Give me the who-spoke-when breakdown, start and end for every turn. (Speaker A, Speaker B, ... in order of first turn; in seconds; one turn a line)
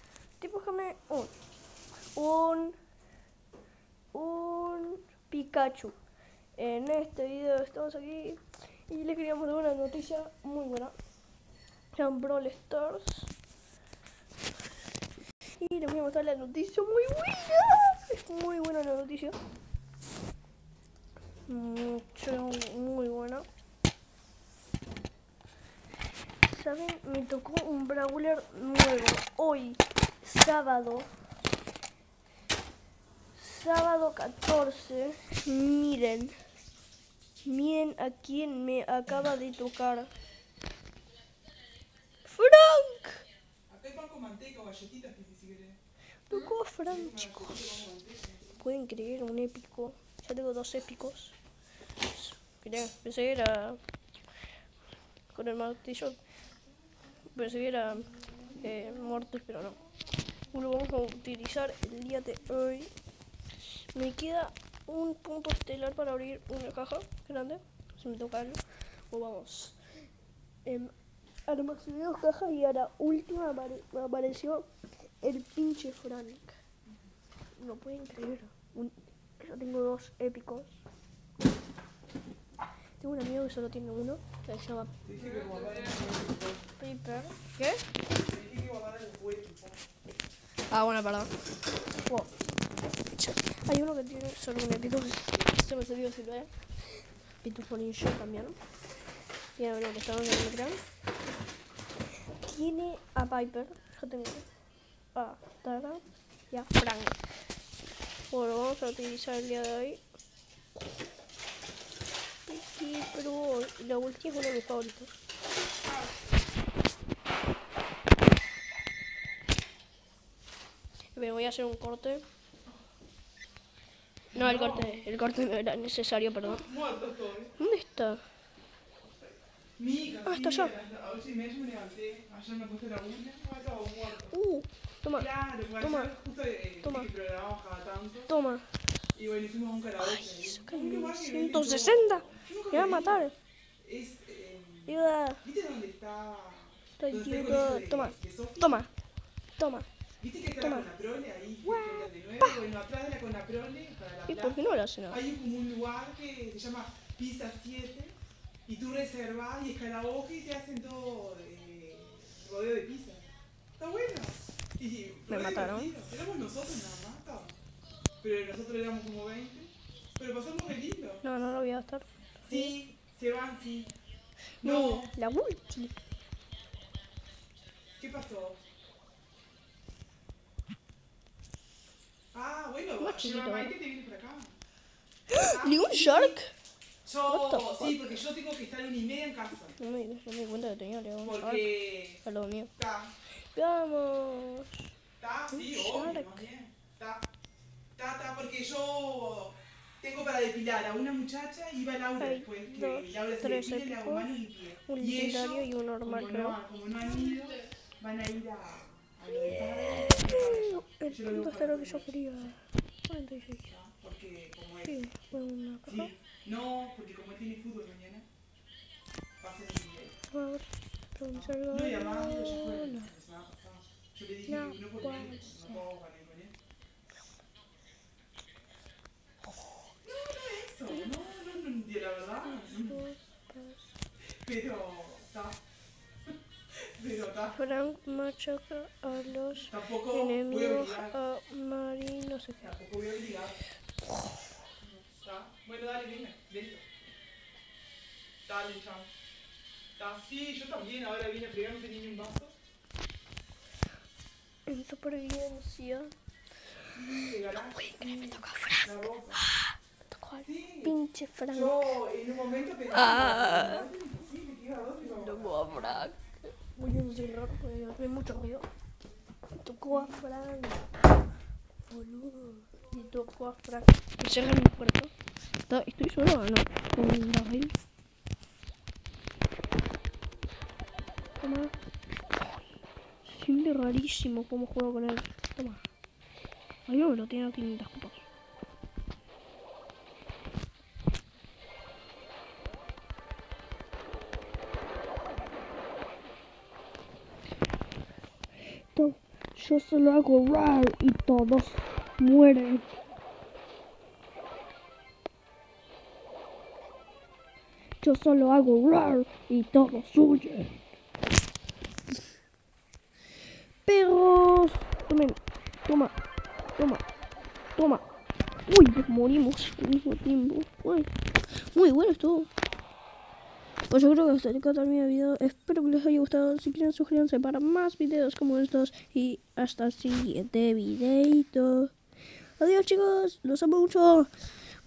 Speaker A: 0.4-1.3
Speaker A: 2.1-2.8
Speaker A: 4.1-6.0
Speaker A: 6.6-10.9
Speaker A: 11.9-13.3
Speaker A: 15.5-19.4
Speaker A: 21.5-23.4
Speaker A: 26.4-31.1
Speaker A: 33.3-36.4
Speaker A: 37.4-40.1
Speaker A: 42.2-43.2
Speaker B: 43.7-45.8
Speaker A: 46.3-47.8
Speaker B: 46.9-48.5
Speaker A: 48.6-51.4
Speaker A: 52.1-53.8
Speaker A: 55.3-56.2
Speaker A: 57.3-59.8
Speaker A: 60.5-62.9
Speaker A: 63.6-69.8
Speaker A: 70.6-70.9
Speaker A: 71.5-76.6
Speaker A: 77.6-80.8
Speaker A: 83.0-85.0
Speaker B: 85.0-86.6
Speaker A: 86.8-87.8
Speaker B: 88.1-89.8
Speaker A: 90.7-91.4
Speaker A: 92.0-92.3
Speaker A: 93.1-98.6
Speaker A: 99.5-100.8
Speaker A: 102.3-104.5
Speaker A: 105.1-107.2
Speaker A: 108.3-110.0
Speaker A: 112.5-115.1
Speaker A: 121.1-122.2
Speaker B: 124.3-124.9
Speaker A: 124.3-126.6
Speaker B: 126.4-127.5
Speaker A: 127.6-128.2
Speaker B: 129.8-134.4
Speaker A: 130.3-130.7
Speaker A: 134.3-136.1
Speaker B: 135.1-138.3
Speaker A: 136.8-137.1
Speaker A: 138.3-138.8
Speaker B: 139.1-148.8
Speaker A: 140.0-143.3
Speaker A: 144.9-145.4
Speaker A: 147.0-148.9
Speaker A: 149.6-149.9
Speaker B: 150.2-167.5
Speaker A: 150.6-150.9
Speaker A: 151.7-152.6
Speaker A: 154.3-155.2
Speaker A: 165.3-166.0
Speaker B: 168.2-171.2
Speaker A: 171.2-172.7
Speaker B: 172.4-173.9
Speaker B: 174.6-175.1
Speaker A: 174.6-175.9
Speaker B: 178.0-178.6
Speaker B: 182.3-184.5
Speaker A: 183.0-183.7
Speaker A: 185.3-186.5
Speaker B: 185.3-186.4
Speaker B: 187.0-189.8
Speaker A: 187.3-188.2
Speaker A: 189.8-192.7
Speaker B: 191.2-192.2
Speaker B: 192.8-193.2
Speaker A: 193.3-194.8
Speaker B: 195.2-197.3
Speaker A: 195.5-196.4
Speaker B: 197.9-212.2
Speaker A: 202.2-204.3
Speaker A: 204.8-206.6
Speaker A: 209.6-213.7
Speaker B: 213.7-215.0
Speaker A: 214.8-216.1
Speaker B: 215.9-218.2
Speaker B: 219.4-220.2
Speaker A: 220.3-223.1
Speaker B: 221.3-226.5
Speaker A: 224.5-225.8
Speaker B: 230.0-233.0
Speaker A: 232.5-233.8
Speaker B: 234.4-235.6
Speaker B: 236.7-237.6
Speaker A: 237.5-242.8
Speaker B: 239.6-241.2
Speaker B: 242.6-243.6
Speaker B: 245.0-246.8
Speaker B: 248.4-249.1
Speaker B: 250.0-252.5
Speaker A: 254.7-256.1
Speaker B: 256.9-259.4
Speaker A: 257.7-258.9
Speaker A: 260.1-262.0
Speaker B: 260.4-260.9
Speaker B: 261.5-266.1
Speaker A: 262.9-263.9
Speaker A: 265.0-268.7
Speaker A: 269.6-270.8
Speaker B: 269.9-270.2
Speaker A: 271.9-275.1
Speaker A: 275.7-277.7
Speaker A: 281.4-281.7
Speaker A: 283.2-285.8
Speaker A: 286.9-288.2
Speaker A: 298.7-302.9
Speaker A: 308.0-310.8
Speaker A: 313.8-316.1
Speaker A: 316.8-317.0
Speaker A: 317.8-318.0
Speaker A: 318.7-322.5
Speaker A: 323.9-331.9
Speaker A: 332.6-334.3